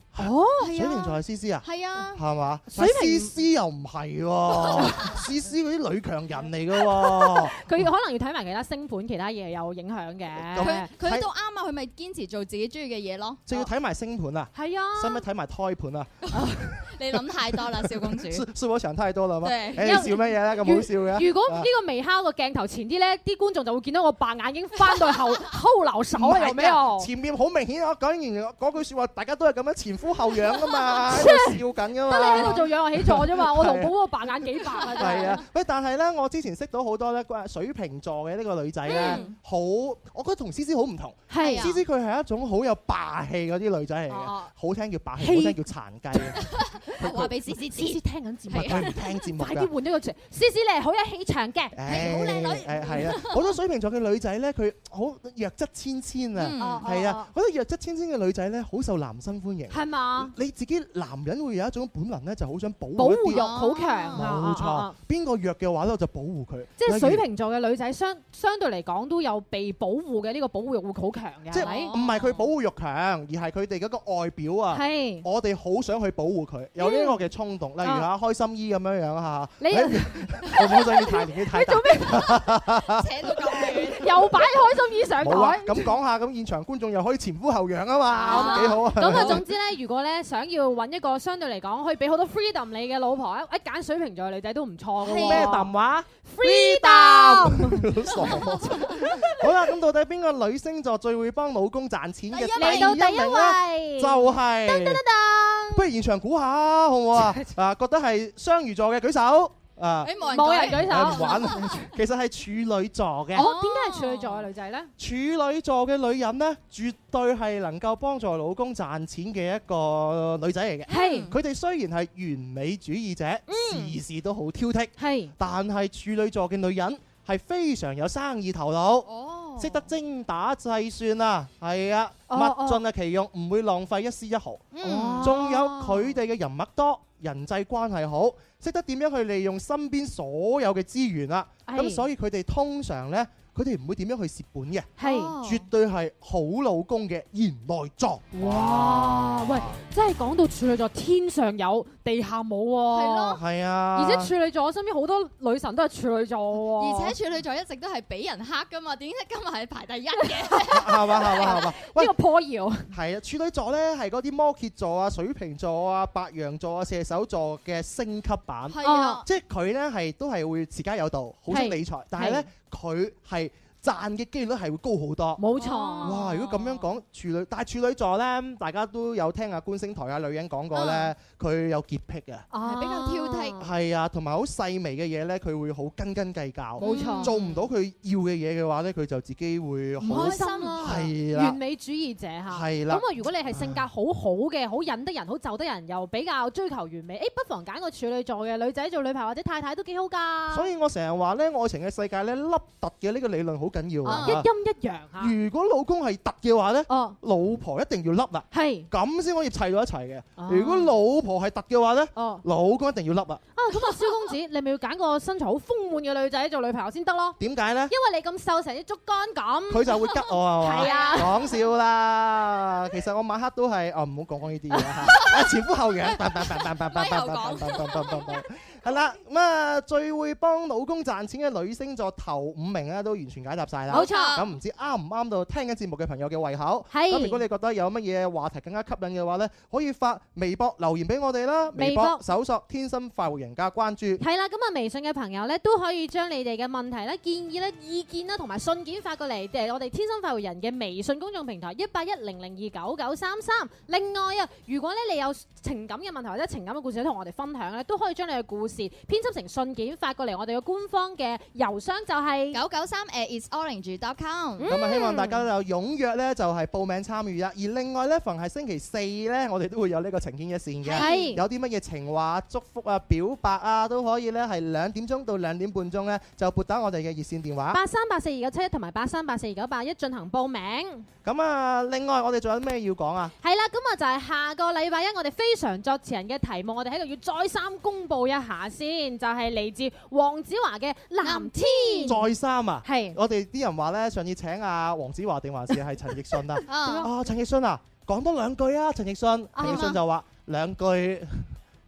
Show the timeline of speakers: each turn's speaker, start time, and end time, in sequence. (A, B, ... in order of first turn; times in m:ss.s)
0:00.1-0:07.9 A
0:00.2-0:00.7 B
0:00.6-0:02.2 C
0:02.7-0:03.4 B
0:04.6-0:04.9 C
0:04.8-0:05.1 B
0:07.0-0:10.9 B
0:10.4-0:11.3 A
0:10.6-0:13.7 C
0:13.5-0:16.3 A
0:14.6-0:15.2 B
0:16.3-0:18.5 C
0:17.1-0:21.7 A
0:19.4-0:20.2 C
0:19.8-0:27.1 B
0:26.1-0:33.9 A
0:31.1-0:35.4 B
0:34.8-0:35.3 C
0:35.0-0:47.3 A
0:38.9-0:39.2 B
0:38.9-0:39.4 C
0:41.3-0:41.7 B
0:41.4-0:41.8 C
0:44.1-0:44.5 B
0:45.2-0:45.6 B
0:46.2-0:51.8 B
0:46.4-0:48.0 C
0:48.5-0:49.0 C
0:48.6-0:49.7 A
0:51.8-1:03.5 A
0:51.9-0:53.6 C
0:56.4-0:56.9 C
0:56.6-0:57.3 B
0:59.7-1:00.3 B
1:03.0-1:05.0 B
1:03.3-1:04.2 C
1:04.1-1:07.2 A
1:06.8-1:12.0 B
1:11.5-1:23.0 A
1:11.6-1:12.4 C
1:14.7-1:15.2 B
1:16.8-1:17.2 B
1:17.8-1:18.1 B
1:19.6-1:22.5 B
1:22.8-1:24.1 C
1:23.9-1:25.9 B
1:25.2-1:29.4 A
1:28.2-1:29.4 C
1:28.3-1:35.7 B
1:35.0-1:35.5 C
1:35.2-1:45.0 A
1:36.2-1:39.4 B
1:38.2-1:39.0 C
1:42.3-1:43.0 C
1:42.6-1:45.8 B
1:45.7-1:53.5 A
1:47.2-1:47.5 B
1:50.0-1:51.6 C
1:50.2-1:51.9 B
1:53.3-1:54.9 B
1:53.4-1:54.4 C
1:55.0-2:24.9 A
2:00.9-2:01.3 B
2:00.9-2:01.4 C
2:03.5-2:04.0 B
2:05.0-2:05.3 B
2:09.1-2:09.9 C
2:12.3-2:12.8 B
2:14.7-2:15.3 C
2:14.8-2:16.1 B
2:21.7-2:22.1 B
2:25.0-2:25.3 B
2:25.0-2:25.7 C
2:25.4-2:29.8 A
2:28.3-2:33.4 B
2:32.9-2:33.4 C
2:33.3-2:34.3 A
2:34.0-2:37.2 B
2:36.8-2:41.6 C
2:40.2-2:42.9 B
2:40.7-2:42.1 A
2:42.9-2:55.4 A
2:48.7-2:49.3 C
2:48.8-2:49.2 B
2:51.5-2:52.4 B
2:55.4-2:56.2 B
2:55.6-2:56.8 C
2:56.0-3:02.5 A
3:00.7-3:01.1 C
3:02.5-3:03.6 B
3:02.6-3:03.6 C
3:03.6-3:11.6 A
3:06.8-3:07.3 B
3:06.8-3:07.7 C
3:10.0-3:20.7 B
3:10.1-3:11.0 C
3:12.5-3:13.8 A
3:20.5-3:24.5 A
3:24.0-3:25.4 B
3:24.1-3:24.4 C
3:25.2-3:33.4 A
3:26.9-3:27.2 B
3:28.5-3:28.9 B
3:30.4-3:30.9 B
3:32.2-3:32.4 B
3:33.6-3:37.4 B
3:37.4-3:37.9 A
3:37.9-3:41.3 B
3:39.7-4:04.2 A
3:40.8-3:41.4 C
3:44.7-3:45.1 B
3:45.1-3:45.5 C
3:46.1-3:48.4 C
3:53.9-3:54.4 B
3:53.9-3:54.5 C
3:56.9-3:57.4 B
4:01.8-4:02.2 B
4:04.2-4:22.6 B
4:22.5-4:24.7 C
4:24.6-4:25.4 B
4:24.6-4:37.8 A
4:30.8-4:31.1 C
4:31.0-4:31.4 B
4:37.7-4:41.1 B
4:41.2-4:43.3 A
4:43.4-4:52.2 B
4:51.2-4:52.2 C
4:52.0-5:01.5 A
4:52.8-4:53.2 B
4:56.7-4:57.1 C
4:56.7-4:57.1 B
4:59.6-5:00.0 B